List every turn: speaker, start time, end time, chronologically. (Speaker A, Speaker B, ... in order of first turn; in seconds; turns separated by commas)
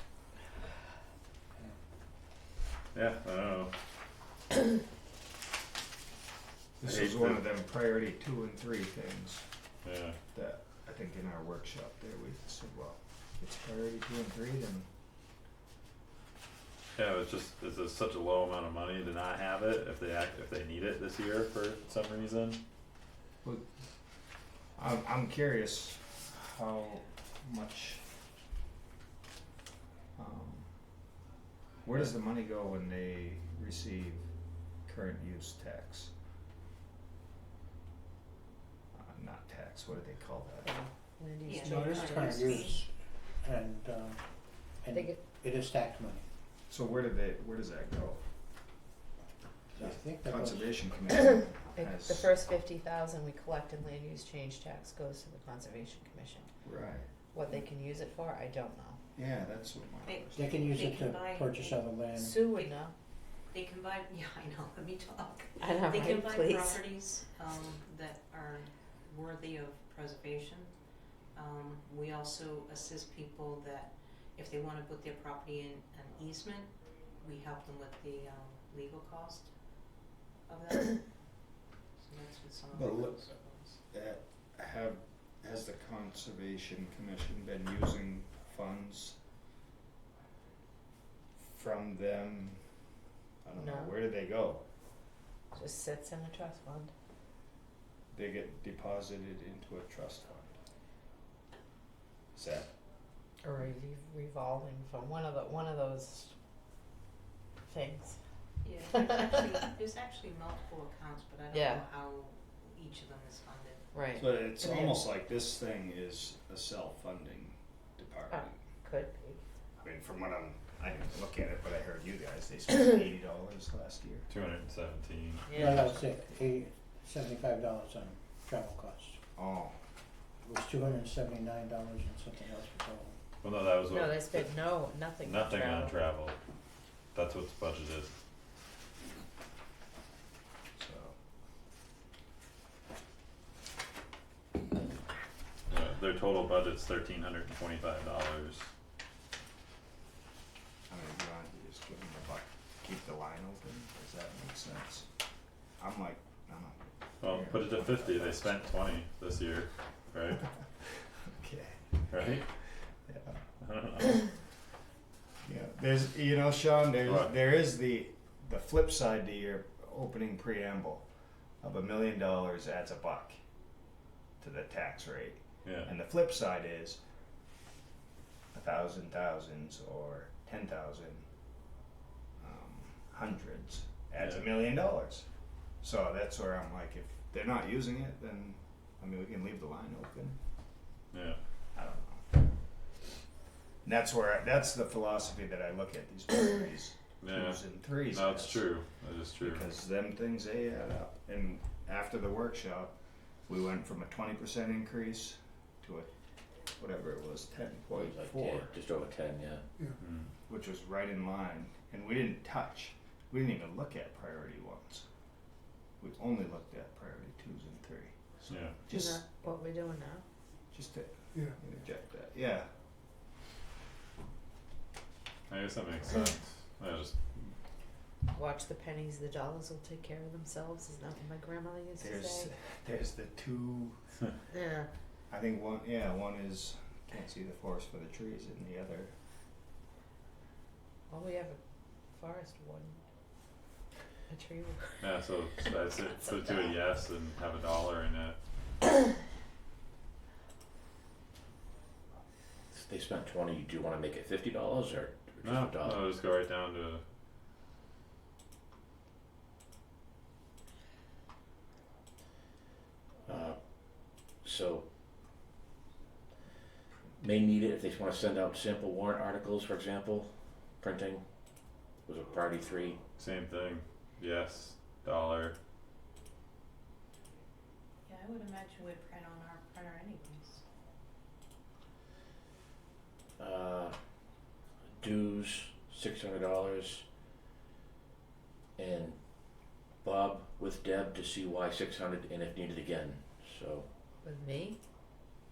Speaker A: 2.9-3.7, Speaker B: 6.8-9.5, Speaker A: 6.8-7.4, Speaker A: 9.8-10.2, Speaker B: 10.3-14.9, Speaker A: 16.9-22.6, Speaker B: 24.8-28.0, Speaker B: 30.1-30.7, Speaker B: 31.8-34.3, Speaker B: 34.9-36.1, Speaker B: 38.9-40.7, Speaker C: 40.6-42.4, Speaker D: 41.4-42.8, Speaker E: 41.6-44.2, Speaker E: 44.8-46.2, Speaker C: 44.9-45.2, Speaker B: 46.7-48.2, Speaker E: 49.7-50.9, Speaker B: 49.8-52.3, Speaker C: 51.1-56.5, Speaker B: 56.6-57.1, Speaker C: 57.3-59.0, Speaker B: 59.1-60.5, Speaker D: 60.0-62.7, Speaker E: 60.3-62.4, Speaker C: 62.1-62.9, Speaker D: 63.5-70.7, Speaker C: 65.6-66.8, Speaker D: 71.3-79.5, Speaker D: 80.5-83.8, Speaker B: 82.7-89.2, Speaker B: 91.4-92.6, Speaker B: 93.4-94.6, Speaker C: 93.5-93.9, Speaker C: 95.5-96.9, Speaker B: 98.1-100.6, Speaker B: 102.3-102.7, Speaker C: 103.4-106.3, Speaker C: 107.7-108.2, Speaker D: 108.6-113.8, Speaker C: 108.8-109.6, Speaker C: 111.5-111.8, Speaker C: 113.9-115.0, Speaker B: 114.2-118.6, Speaker C: 118.3-119.4, Speaker B: 119.8-124.3, Speaker A: 124.3-125.9, Speaker C: 125.5-125.8, Speaker E: 125.5-129.2, Speaker B: 129.3-129.7, Speaker E: 130.4-133.2, Speaker A: 133.4-134.5, Speaker C: 133.9-135.9, Speaker A: 135.2-136.4, Speaker A: 137.1-138.1, Speaker B: 140.7-141.2, Speaker A: 145.7-148.7, Speaker B: 150.9-155.1, Speaker B: 155.8-158.7, Speaker A: 157.2-160.4, Speaker B: 161.3-161.9, Speaker A: 162.1-162.4, Speaker B: 163.1-163.4, Speaker A: 163.6-164.2, Speaker B: 165.4-171.1, Speaker A: 167.0-167.3, Speaker B: 171.6-173.4, Speaker B: 174.4-177.0, Speaker A: 175.6-175.9, Speaker B: 178.5-181.2, Speaker B: 182.4-185.3, Speaker B: 185.8-190.4, Speaker A: 191.1-191.4, Speaker B: 191.7-192.3, Speaker B: 193.8-198.7, Speaker A: 197.2-199.6, Speaker B: 199.4-206.1, Speaker B: 206.8-208.7, Speaker F: 207.9-209.7, Speaker A: 210.0-210.3, Speaker B: 210.5-215.1, Speaker B: 216.0-219.2, Speaker A: 218.5-218.7, Speaker C: 218.9-220.2, Speaker B: 220.7-222.7, Speaker A: 225.5-227.5, Speaker C: 228.3-232.5, Speaker B: 232.0-234.1, Speaker C: 234.5-234.9, Speaker B: 235.3-239.1, Speaker C: 241.1-241.6, Speaker C: 242.1-243.0, Speaker C: 244.3-245.1, Speaker A: 245.0-248.4, Speaker F: 252.7-256.1, Speaker A: 255.4-257.0, Speaker F: 263.2-264.8, Speaker F: 267.2-271.2, Speaker F: 272.0-273.0, Speaker A: 273.2-275.6, Speaker D: 278.1-280.6, Speaker F: 283.4-284.0, Speaker F: 285.0-287.0, Speaker F: 288.8-293.9, Speaker C: 294.2-294.8